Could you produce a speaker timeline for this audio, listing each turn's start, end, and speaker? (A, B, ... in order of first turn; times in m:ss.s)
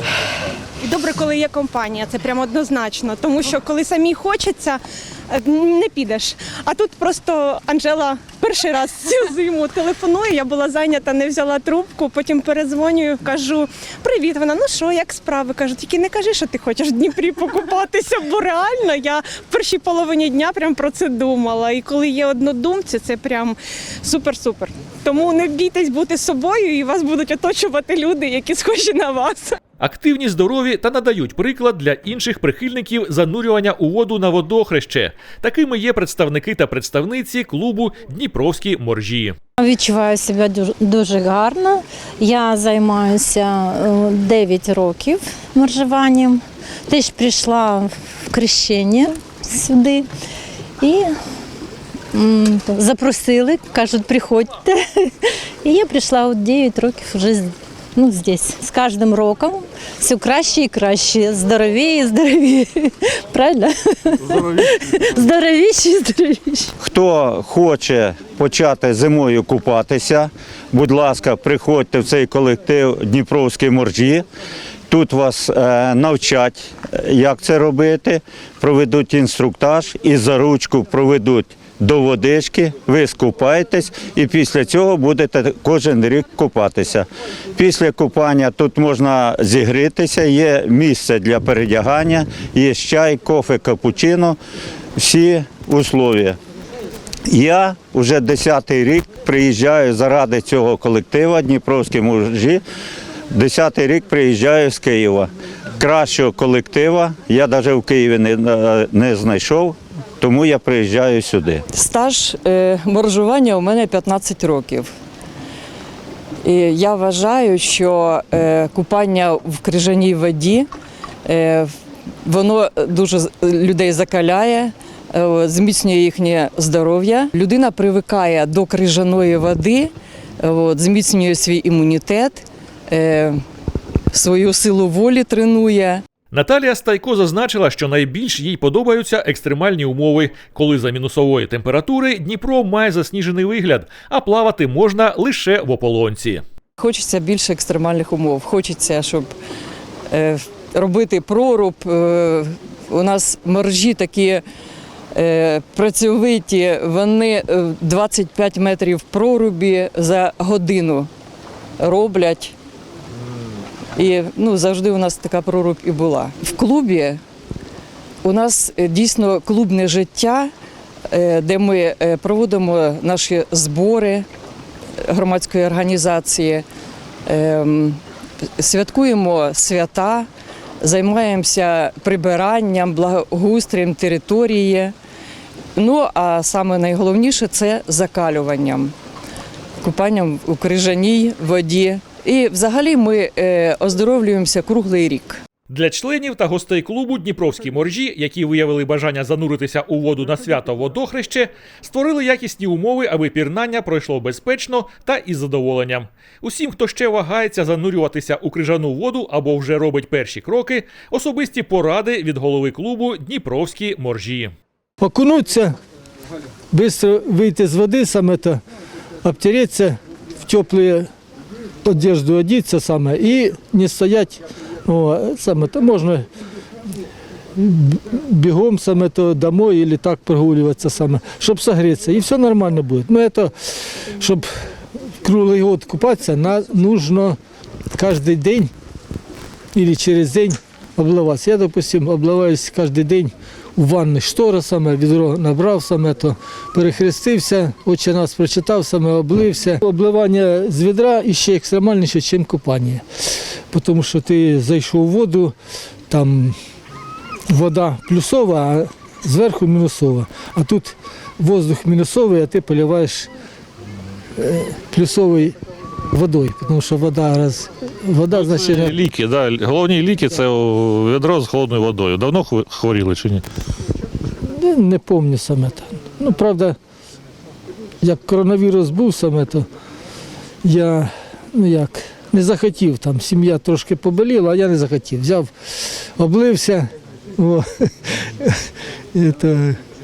0:00.8-0:29.6 A
0:29.8-0:39.4 B
0:39.6-0:50.1 C
0:50.8-0:51.1 C
0:52.1-0:55.1 C
0:55.6-1:06.7 C
1:06.8-1:14.2 D
1:14.9-1:34.4 D
1:35.0-1:36.4 D
1:37.3-1:42.6 D
1:43.3-1:51.6 D
1:51.7-1:54.9 E
1:56.4-2:00.7 E
2:01.3-2:01.7 E
2:02.2-2:13.4 E
2:14.1-2:16.0 E
2:16.3-2:26.4 B
2:26.8-2:29.3 E
2:30.1-2:34.4 E
2:35.1-2:41.1 E
2:41.8-2:42.6 E
2:44.0-2:47.2 E
2:48.2-2:50.5 E
2:51.1-2:54.3 E
2:55.1-2:56.6 E
2:57.3-2:58.0 E
2:58.6-3:00.3 E
3:00.8-3:04.9 E
3:05.8-3:08.9 E
3:09.8-3:15.4 E
3:15.7-3:34.5 B
3:35.0-3:35.8 F
3:36.7-3:38.6 F
3:39.2-3:41.1 F
3:41.8-3:46.3 F
3:47.6-3:54.5 F
3:55.2-3:57.4 F
3:57.9-3:58.7 F
3:59.7-4:13.0 F
4:13.7-4:15.5 F
4:16.1-4:16.6 F
4:17.5-4:23.3 F
4:24.4-4:25.6 F
4:26.1-4:29.0 F
4:28.3-4:33.4 G
4:34.5-4:36.8 F
4:38.0-4:39.7 F
4:40.6-4:45.5 F
4:46.2-4:49.8 F